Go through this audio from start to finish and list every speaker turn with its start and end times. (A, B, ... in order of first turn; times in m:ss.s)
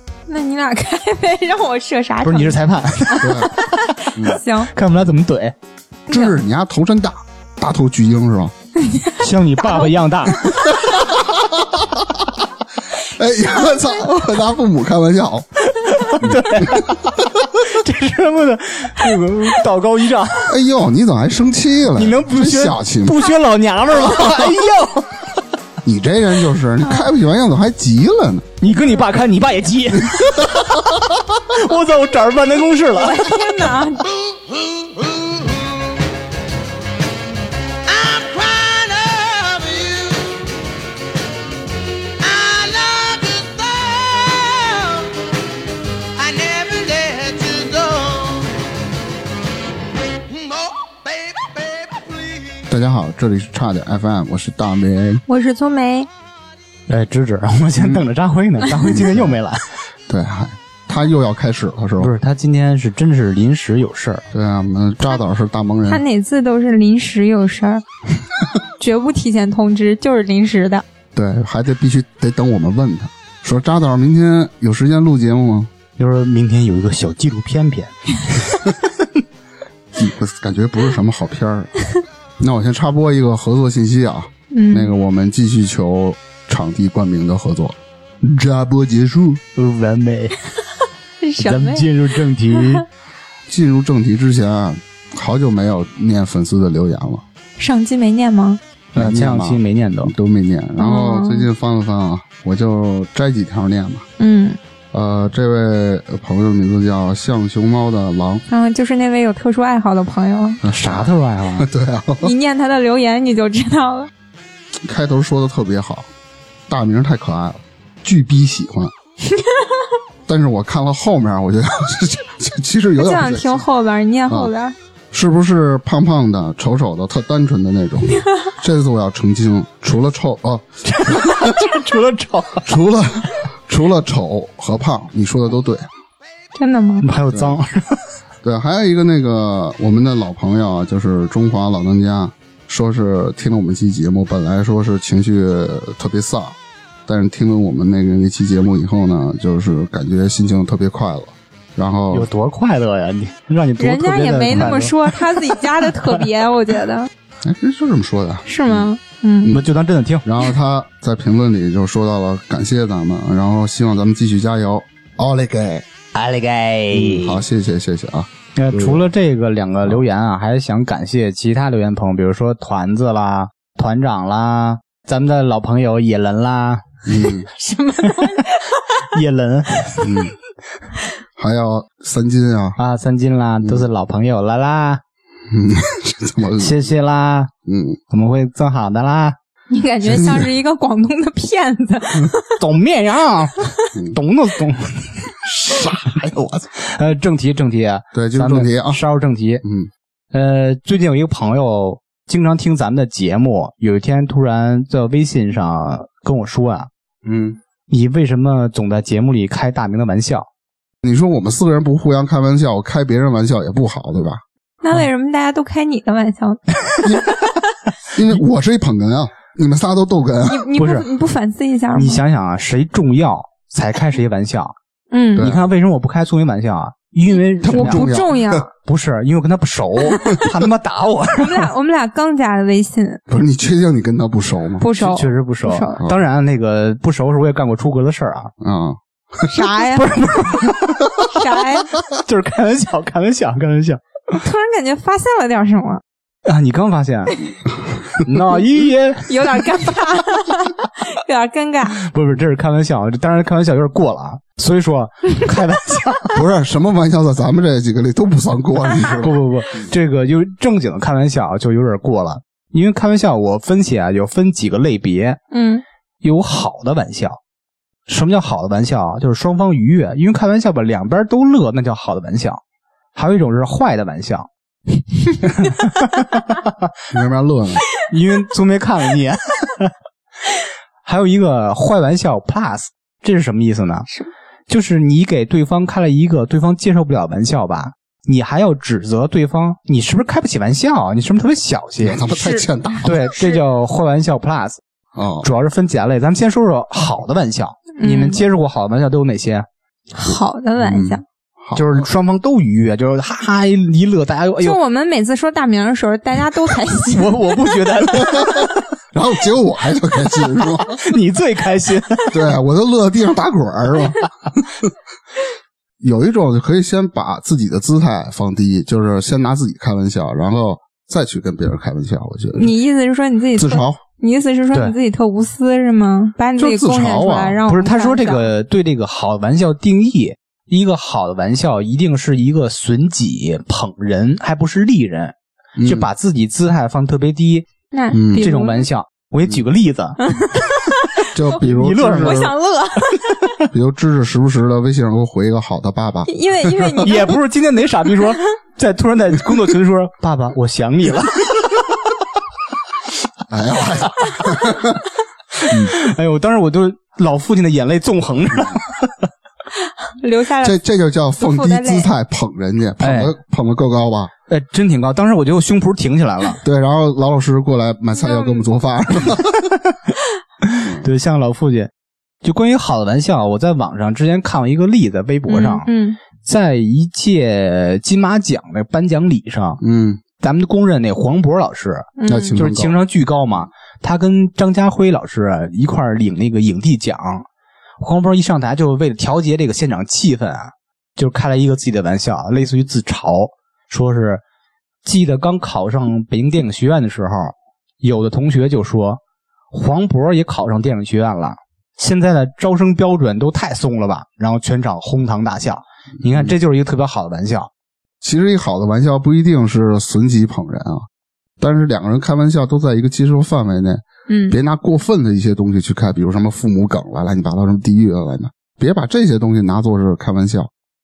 0:00.3-0:04.7 A
0:02.2-0:05.5 B
0:03.2-0:03.5 C
0:04.1-0:04.4 C
0:06.1-0:06.3 A
0:06.1-0:08.5 C
0:08.8-0:09.9 A
0:09.2-0:10.7 B
0:10.6-0:12.2 C
0:13.0-0:15.5 C
0:15.6-0:20.5 B
0:16.1-0:17.2 C
0:20.5-0:23.3 C
0:21.9-0:25.3 B
0:23.9-0:24.6 C
0:25.8-0:28.4 C
0:26.8-0:27.1 A
0:28.6-0:33.4 B
0:29.9-0:31.2 C
0:32.9-0:34.1 A
0:34.0-0:36.0 D
0:37.8-0:40.5 D
0:42.2-0:45.2 D
0:46.1-0:48.6 D
0:50.3-0:52.6 D
0:52.7-0:55.2 C
0:55.3-0:56.1 A
0:56.9-0:59.6 B
0:58.8-0:59.3 C
1:00.1-1:02.1 C
1:02.0-1:04.2 B
1:04.3-1:06.0 C
1:05.9-1:07.8 A
1:08.8-1:10.8 A
1:11.1-1:15.7 C
1:16.0-1:18.9 B
1:19.9-1:21.7 C
1:22.4-1:29.4 C
1:24.5-1:24.9 A
1:29.5-1:30.4 B
1:31.2-1:31.8 A
1:31.4-1:32.8 B
1:32.5-1:32.8 A
1:33.5-1:37.2 C
1:37.6-1:38.6 A
1:38.9-1:44.0 C
1:38.9-1:40.1 B
1:40.8-1:41.5 A
1:44.2-1:44.6 A
1:44.9-1:48.4 C
1:48.5-1:50.6 A
1:50.6-1:52.3 C
1:50.7-1:51.7 B
1:52.2-1:54.1 A
1:54.8-1:56.1 C
1:56.7-1:58.9 C
1:59.4-1:59.6 A
2:00.2-2:03.6 C
2:03.0-2:04.7 A
2:05.1-2:11.8 C
2:10.9-2:12.7 B
2:12.6-2:15.9 C
2:16.6-2:17.0 A
2:17.0-2:18.0 B
2:17.3-2:17.6 C
2:18.4-2:32.3 C
2:32.1-2:36.2 B
2:33.8-2:37.1 A
2:34.5-2:34.8 C
2:37.4-2:38.9 C
2:38.5-2:39.5 A
2:39.5-2:40.2 B
2:40.2-2:45.8 C
2:46.1-2:47.4 B
2:46.9-2:49.0 C
2:48.6-2:56.9 B
2:57.0-2:57.5 C
2:57.6-2:59.0 A
2:58.0-2:58.5 B
2:59.0-3:00.1 B
3:00.0-3:00.3 C
3:01.4-3:02.8 C
3:02.8-3:05.0 B
3:05.5-3:06.8 C
3:06.6-3:07.5 B
3:07.6-3:08.0 C
3:08.1-3:09.4 B
3:09.7-3:12.6 A
3:10.0-3:10.5 C
3:12.6-3:16.2 B
3:13.6-3:13.8 A
3:15.4-3:16.7 C
3:16.7-3:19.6 B
3:18.1-3:19.0 C
3:19.6-3:19.9 C
3:20.3-3:26.9 B
3:27.2-3:27.6 C
3:27.9-3:30.5 B
3:31.0-3:34.4 C
3:34.8-3:37.3 A
3:37.0-3:37.4 C
3:38.1-3:40.7 C
3:40.5-3:42.2 A
3:40.8-3:41.1 B
3:41.9-3:44.7 B
3:45.1-3:45.5 A
3:45.4-3:48.1 B
3:47.6-3:48.6 C
3:47.7-3:48.7 A
3:48.8-3:51.7 B
3:51.4-3:53.2 A
3:53.3-3:54.9 C
3:54.8-3:56.0 A
3:55.0-3:58.5 B
3:58.6-3:59.6 C
3:59.4-4:00.6 A
3:59.9-4:01.3 B
4:01.3-4:01.9 A
4:02.1-4:04.0 B
4:04.4-4:06.0 A
4:06.4-4:07.4 B
4:08.2-4:09.8 B
4:09.3-4:12.0 A
4:12.0-4:16.4 B
4:16.3-4:19.9 C
4:19.2-4:25.4 B
4:25.5-4:25.8 A
4:26.2-4:27.4 B
4:28.1-4:32.6 B
4:33.1-4:34.5 B
4:35.4-4:36.9 B
4:37.1-4:37.8 C
4:38.0-4:39.9 B
4:41.0-4:44.1 B
4:44.7-4:52.2 B
4:52.0-4:53.3 C
4:52.4-4:52.6 A
4:53.0-4:54.8 B
4:53.3-4:53.6 A
4:55.1-4:55.5 C
4:55.4-4:59.6 B
4:58.0-4:58.4 A
5:00.1-5:01.2 A
5:00.8-5:02.0 C
5:01.7-5:04.8 B
5:04.6-5:07.8 A
5:07.1-5:08.9 B
5:08.2-5:11.0 C
5:10.8-5:12.4 B
5:12.3-5:14.9 C
5:16.0-5:22.7 C
5:22.5-5:28.5 A
5:23.6-5:24.0 C
5:26.6-5:27.6 C
5:27.7-5:37.7 B
5:35.8-5:36.1 C
5:37.9-5:38.9 A
5:38.1-5:38.5 C
5:38.3-5:40.7 B
5:40.2-5:43.3 A
5:41.3-5:42.5 C
5:41.5-5:42.5 B
5:43.4-5:43.7 B
5:43.7-5:47.1 C
5:46.3-5:47.4 A
5:47.0-5:51.8 B
5:53.5-5:55.0 C
5:55.6-5:59.3 B
6:00.1-6:00.8 A
6:00.6-6:04.3 C
6:01.4-6:02.1 A
6:03.0-6:03.3 B
6:04.5-6:06.6 B
6:06.6-6:09.7 C
6:08.2-6:08.6 A
6:10.6-6:11.9 B
6:12.4-6:19.8 B
6:15.5-6:16.2 A
6:19.8-6:20.2 C
6:20.4-6:27.5 B
6:22.2-6:22.6 A
6:22.3-6:22.9 C
6:28.0-6:34.4 B
6:35.0-6:39.2 B
6:39.7-6:47.7 B
6:48.2-6:51.0 C
6:51.6-7:00.7 C
6:54.3-6:54.6 A